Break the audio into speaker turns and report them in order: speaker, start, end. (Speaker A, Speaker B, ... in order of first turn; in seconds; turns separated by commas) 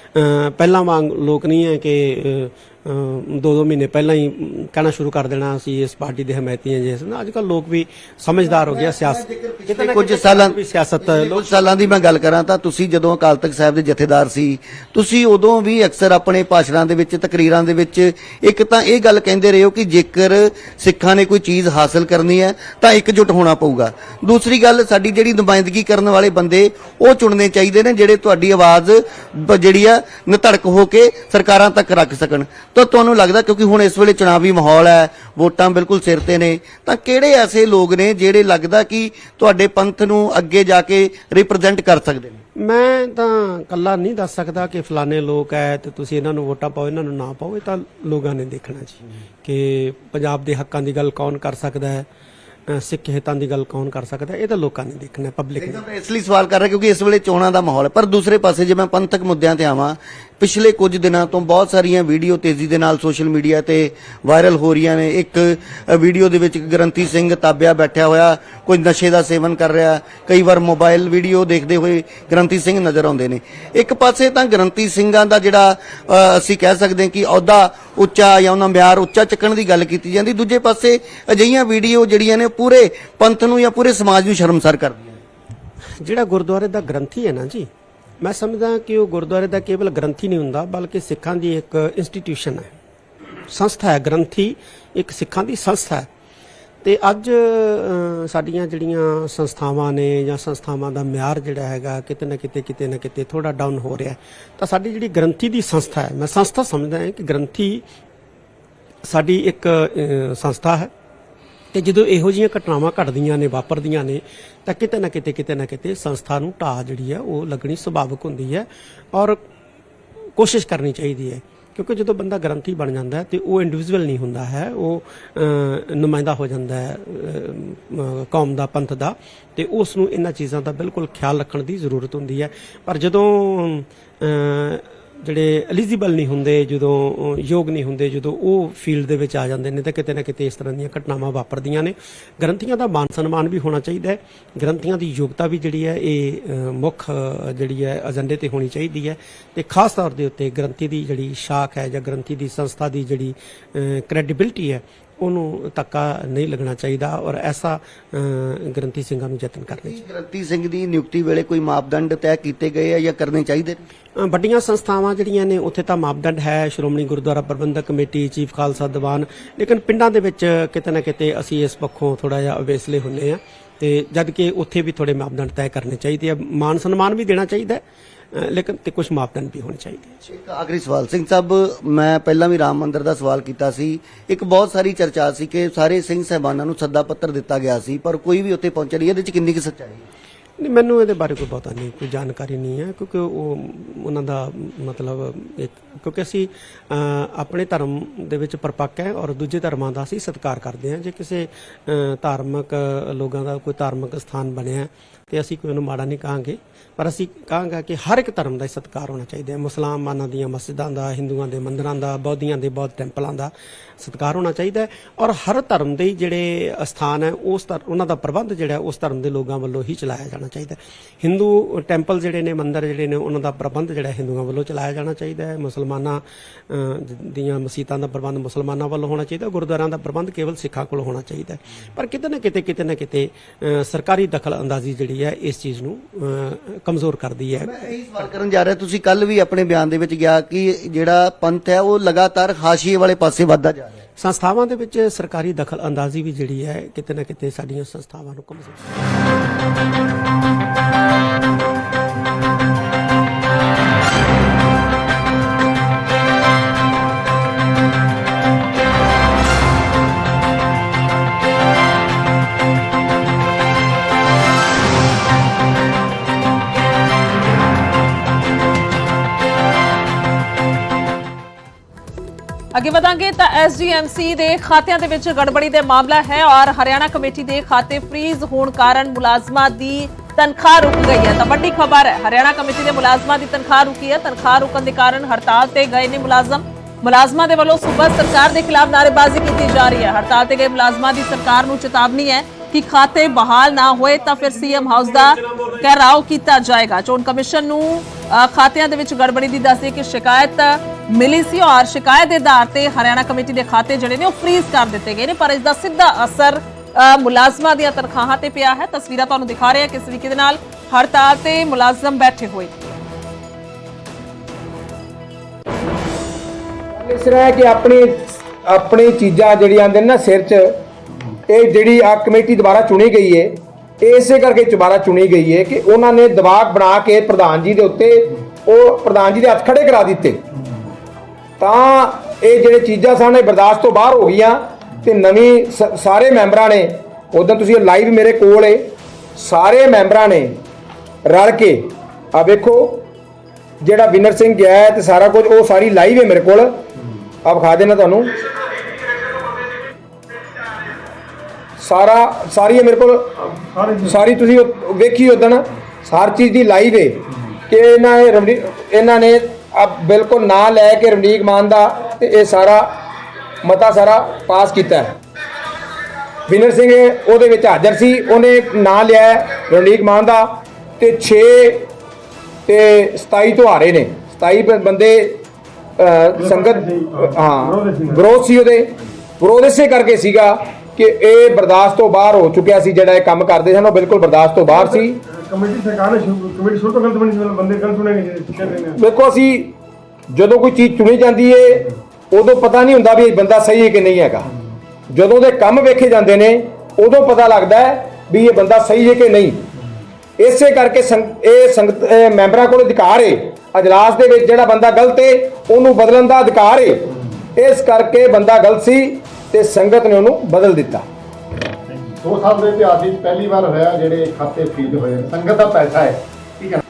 Speaker A: 0.1-11.9, Speaker B: 8.6-42.4, Speaker A: 42.6-52.1, Speaker A: 52.7-55.8, Speaker B: 55.6-85.2, Speaker A: 86.0-87.7, Speaker A: 88.2-92.7, Speaker A: 93.5-96.1, Speaker A: 96.8-107.8, Speaker A: 109.1-110.9, Speaker A: 111.7-119.4, Speaker A: 120.4-160.0, Speaker B: 159.8-163.8, Speaker A: 164.2-177.8, Speaker A: 178.3-180.3, Speaker B: 180.3-190.1, Speaker A: 190.6-237.9, Speaker B: 237.6-244.0, Speaker A: 244.2-248.8, Speaker C: 272.7-312.7, Speaker D: 316.9-320.7, Speaker D: 321.5-330.4, Speaker D: 331.6-340.5, Speaker D: 341.2-341.8, Speaker D: 342.3-343.1, Speaker D: 343.8-346.7, Speaker D: 347.4-348.3, Speaker D: 351.8-353.3, Speaker E: 353.6-354.2, Speaker D: 354.0-362.8, Speaker D: 363.6-365.2, Speaker D: 366.5-370.5, Speaker D: 371.0-371.9, Speaker D: 372.7-375.4, Speaker D: 376.0-385.2, Speaker E: 376.4-378.3, Speaker E: 384.7-389.0, Speaker D: 389.0-389.7, Speaker D: 390.3-394.4, Speaker D: 395.1-399.6, Speaker D: 400.4-406.9, Speaker D: 407.6-411.0, Speaker F: 412.2-416.1